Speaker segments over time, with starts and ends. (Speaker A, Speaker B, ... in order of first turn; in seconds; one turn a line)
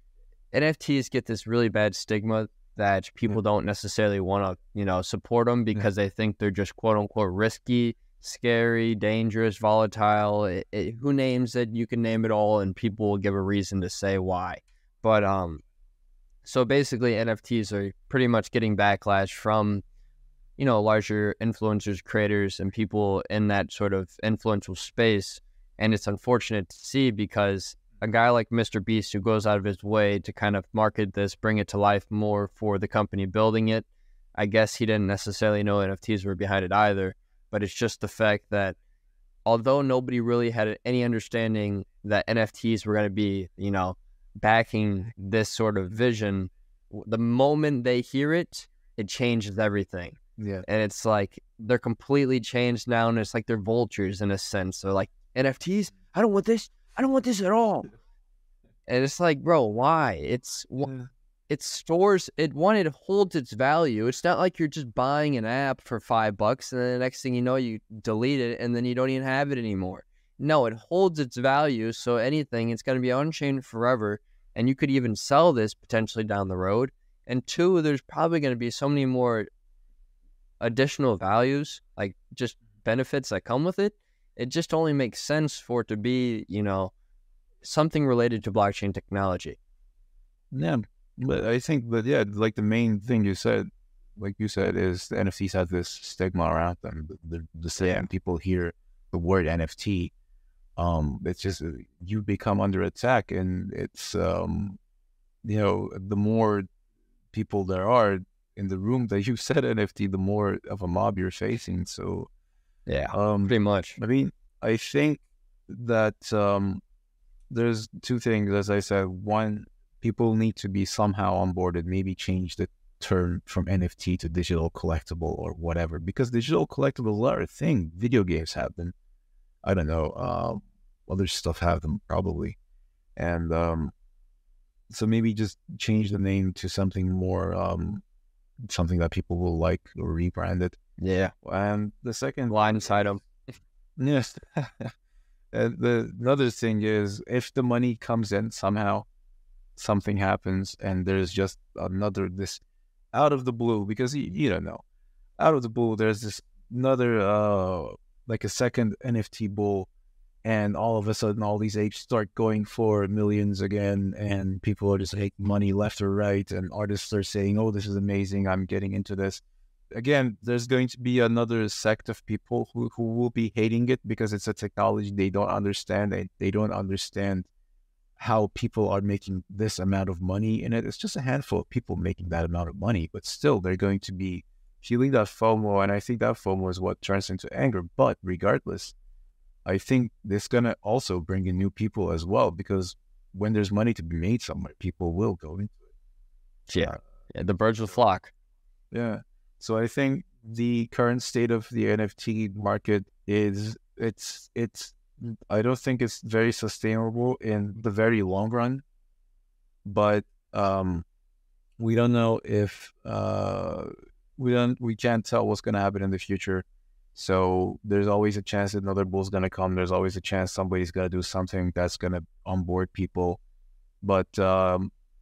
Speaker A: 0.5-15.6
Speaker A: 16.4-19.8
Speaker A: 20.6-38.8
Speaker A: 39.5-57.9
Speaker B: 50.4-50.6
Speaker A: 58.9-60.9
Speaker A: 61.5-79.5
Speaker A: 80.6-86.9
Speaker A: 87.6-89.6
Speaker B: 90.5-100.1
Speaker A: 97.8-98.1
Speaker B: 100.8-104.8
Speaker B: 105.4-106.7
Speaker B: 107.3-112.3
Speaker A: 112.9-114.0
Speaker B: 113.1-116.8
Speaker B: 117.5-128.9
Speaker B: 129.6-132.6
Speaker B: 133.2-133.9
Speaker B: 134.9-138.0
Speaker B: 138.6-140.8
Speaker A: 141.0-141.3
Speaker B: 141.4-142.9
Speaker A: 142.5-143.4
Speaker B: 144.0-144.9
Speaker B: 145.5-149.1
Speaker B: 149.8-152.6
Speaker B: 153.1-154.8
Speaker B: 155.4-159.9
Speaker B: 160.4-169.4
Speaker B: 169.9-177.5
Speaker B: 178.2-188.9
Speaker B: 189.6-195.7
Speaker A: 196.7-198.3
Speaker B: 198.9-208.8
Speaker B: 209.8-211.0
Speaker B: 211.8-223.4
Speaker B: 224.0-224.9